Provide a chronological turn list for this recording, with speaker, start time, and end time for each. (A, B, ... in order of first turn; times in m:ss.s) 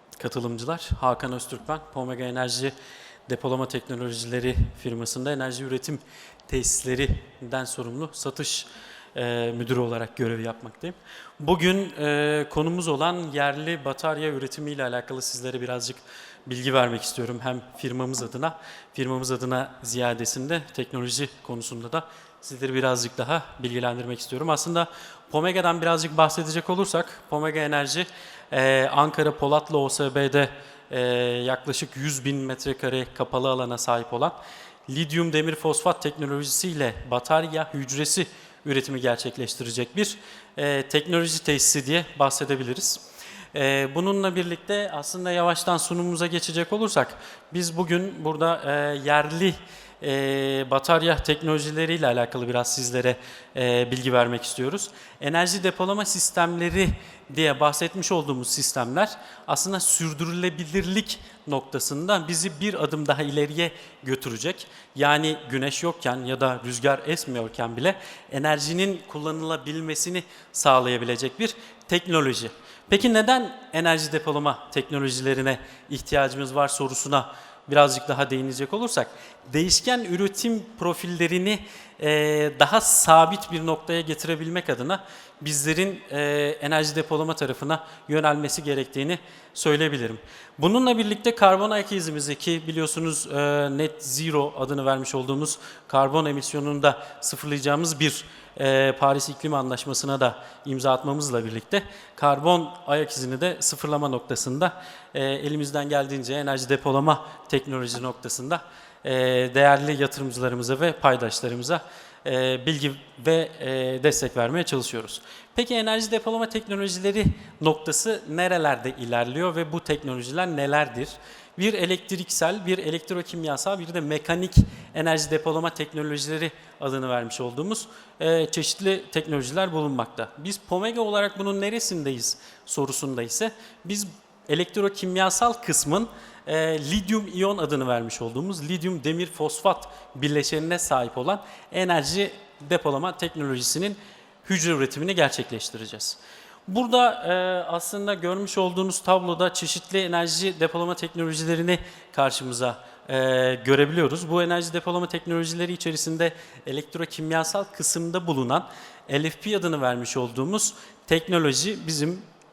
0:00.2-0:02.7 A
0:03.3-0:43.0 A
0:43.5-2:42.3 A